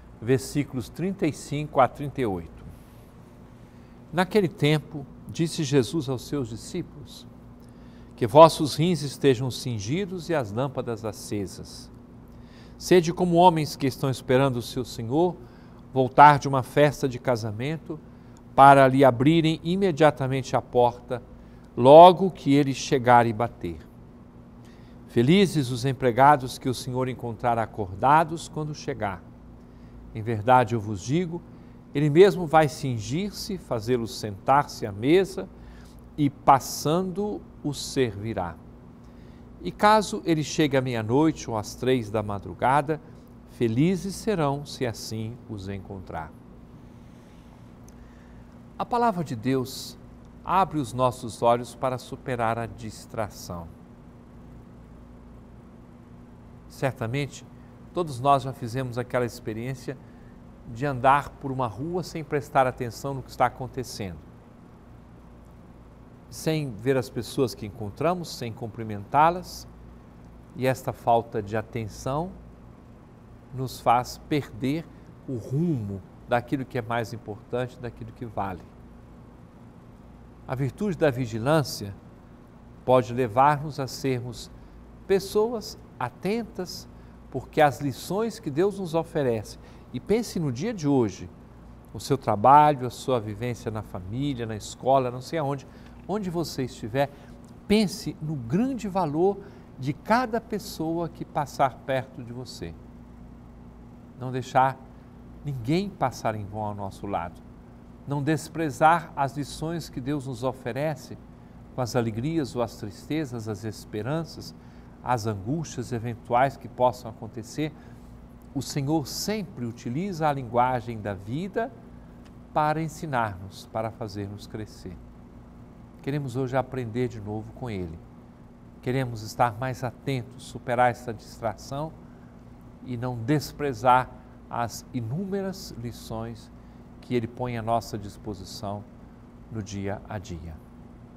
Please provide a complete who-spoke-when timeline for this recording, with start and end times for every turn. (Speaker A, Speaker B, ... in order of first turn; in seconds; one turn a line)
Speaker A: 0.2-2.7
Speaker A: 4.1-7.3
Speaker A: 8.2-11.9
Speaker A: 12.8-15.4
Speaker A: 15.9-18.0
Speaker A: 18.6-21.2
Speaker A: 21.8-23.9
Speaker A: 25.1-29.2
Speaker A: 30.1-35.5
Speaker A: 36.2-38.6
Speaker A: 39.6-46.3
Speaker A: 48.8-53.7
Speaker A: 56.7-60.0
Speaker A: 60.6-64.2
Speaker A: 66.3-69.7
Speaker A: 70.5-72.3
Speaker A: 73.5-78.7
Speaker A: 80.5-82.0
Speaker A: 82.8-84.5
Speaker A: 85.1-91.3
Speaker A: 91.9-97.1
Speaker A: 97.7-102.8
Speaker A: 104.2-104.8
Speaker A: 105.4-107.4
Speaker A: 108.0-111.2
Speaker A: 111.7-117.7
Speaker A: 118.5-121.7
Speaker A: 122.5-125.0
Speaker A: 126.0-128.0
Speaker A: 128.8-131.9
Speaker A: 132.8-138.9
Speaker A: 139.5-140.6